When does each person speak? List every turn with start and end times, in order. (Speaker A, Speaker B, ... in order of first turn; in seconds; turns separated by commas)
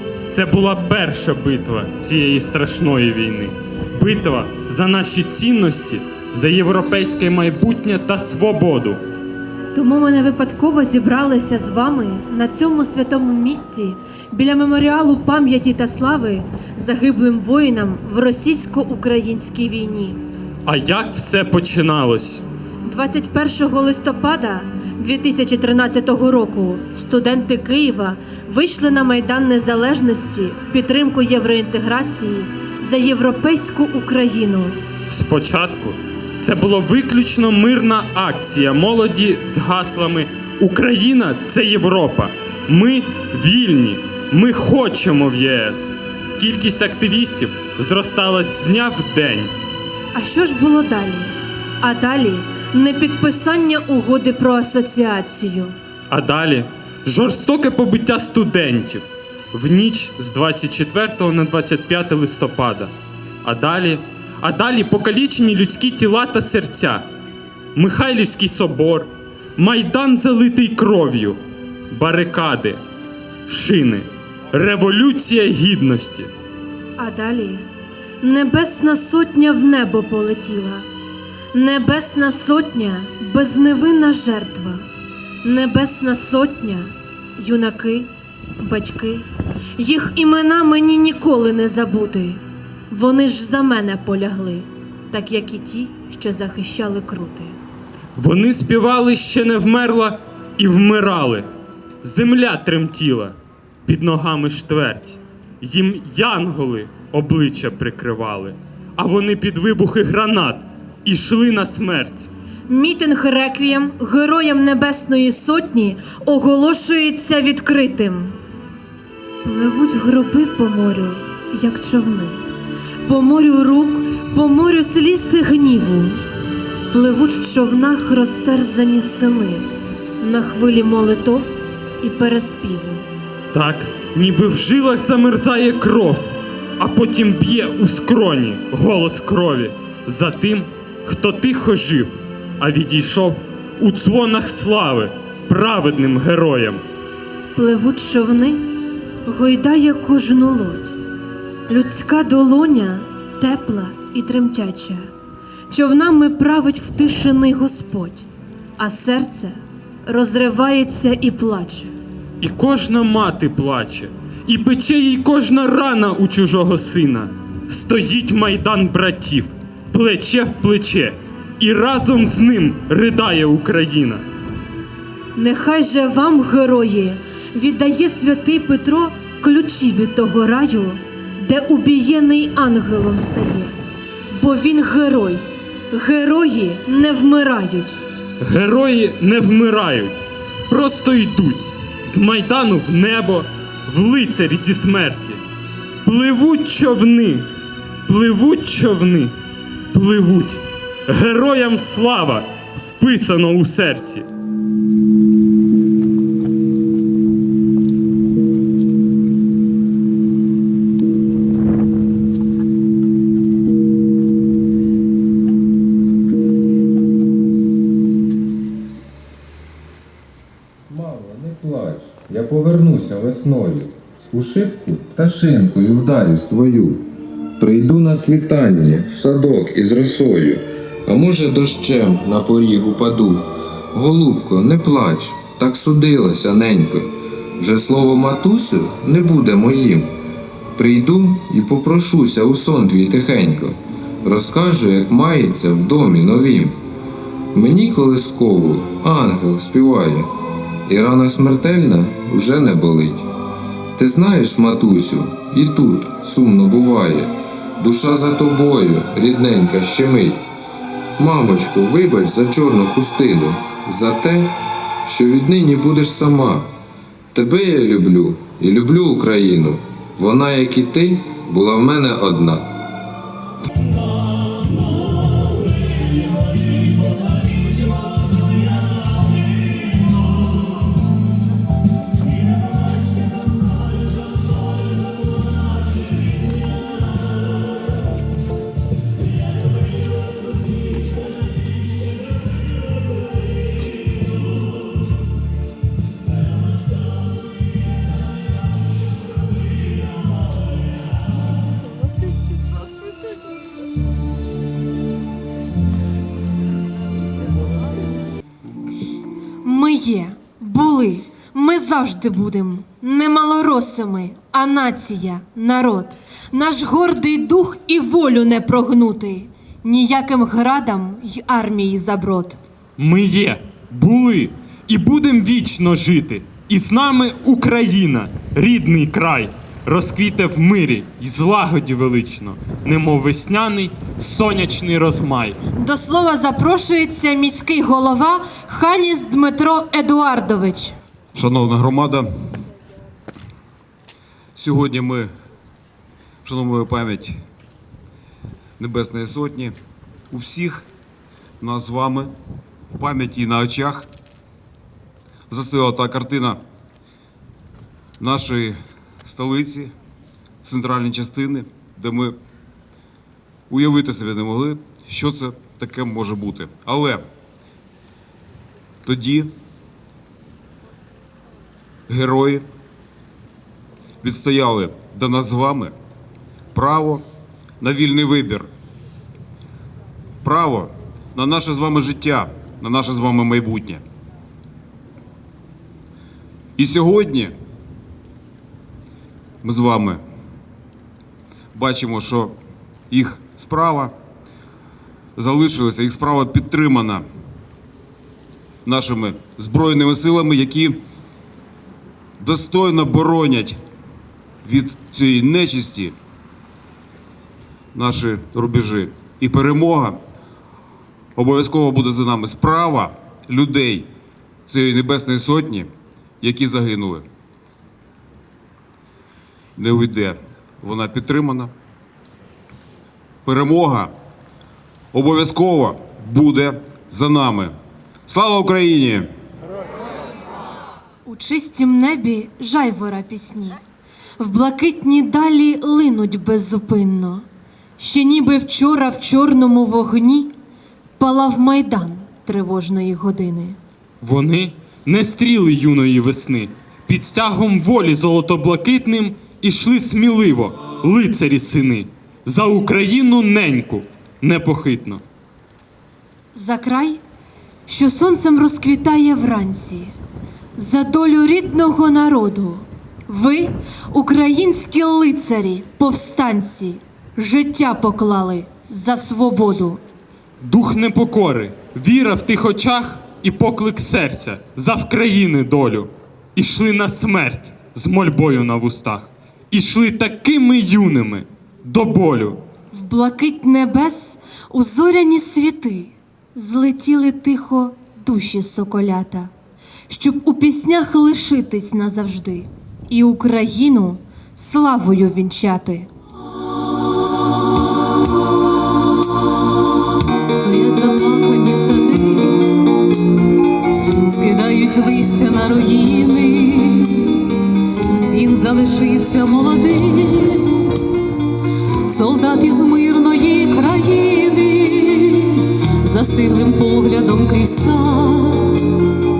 Speaker A: 0.3-9.0, Speaker B: 9.7-20.2, Speaker A: 20.6-22.4, Speaker B: 22.8-34.8, Speaker A: 35.1-49.5, Speaker B: 50.1-55.7, Speaker A: 56.1-67.0, Speaker A: 67.7-71.4, Speaker A: 71.9-72.8, Speaker A: 73.5-76.3, Speaker B: 77.0-77.6, Speaker B: 78.2-80.9, Speaker B: 81.5-84.8, Speaker B: 85.4-89.2, Speaker B: 89.8-97.6, Speaker A: 98.1-101.5, Speaker A: 102.0-112.3, Speaker B: 112.7-118.4, Speaker B: 119.4-122.4, Speaker B: 123.0-126.2, Speaker B: 126.9-129.7, Speaker B: 130.2-133.1, Speaker A: 133.5-146.8, Speaker B: 147.5-148.7, Speaker B: 149.2-150.9, Speaker B: 151.7-155.1, Speaker B: 155.7-161.9, Speaker A: 162.4-174.2, Speaker B: 175.3-183.7, Speaker B: 184.3-188.0, Speaker A: 188.4-190.1, Speaker A: 190.7-195.4, Speaker A: 196.0-197.5, Speaker A: 198.1-199.3, Speaker A: 199.9-204.3, Speaker C: 220.9-227.1, Speaker C: 227.6-240.1, Speaker C: 240.8-246.8, Speaker C: 247.5-250.3, Speaker C: 250.8-253.3, Speaker C: 253.9-260.4, Speaker C: 261.2-266.7, Speaker C: 267.3-272.7, Speaker B: 309.6-322.6, Speaker A: 323.0-335.6, Speaker B: 335.8-340.9, Speaker D: 341.3-342.3, Speaker D: 344.6-345.3, Speaker D: 346.4-347.4, Speaker D: 348.8-349.8, Speaker D: 350.3-350.9, Speaker D: 351.6-352.3, Speaker D: 352.9-354.1, Speaker D: 355.5-356.6, Speaker D: 358.2-359.9, Speaker D: 360.6-362.4, Speaker D: 363.7-367.2, Speaker D: 369.0-369.5, Speaker D: 372.1-372.6, Speaker D: 374.2-375.9, Speaker D: 376.7-377.2, Speaker D: 377.8-378.7, Speaker D: 380.4-384.0, Speaker D: 386.8-387.5, Speaker D: 389.6-390.2, Speaker D: 391.7-392.5, Speaker D: 393.1-394.1, Speaker D: 395.4-397.3, Speaker D: 398.8-401.0, Speaker D: 402.4-403.8, Speaker D: 404.6-406.1, Speaker D: 407.9-410.2, Speaker D: 411.4-414.1, Speaker D: 414.6-417.2, Speaker D: 419.8-421.7, Speaker D: 423.4-424.1, Speaker D: 425.1-427.7, Speaker D: 428.3-429.3, Speaker B: 431.2-433.8, Speaker B: 434.4-437.4, Speaker B: 438.0-440.5, Speaker B: 441.2-443.8, Speaker A: 444.2-455.2, Speaker B: 456.5-457.2, Speaker B: 457.9-460.1, Speaker B: 460.8-470.0, Speaker A: 470.6-482.6, Speaker B: 482.9-489.5, Speaker B: 490.1-496.1, Speaker E: 500.3-503.1, Speaker E: 504.2-511.1, Speaker E: 512.1-519.0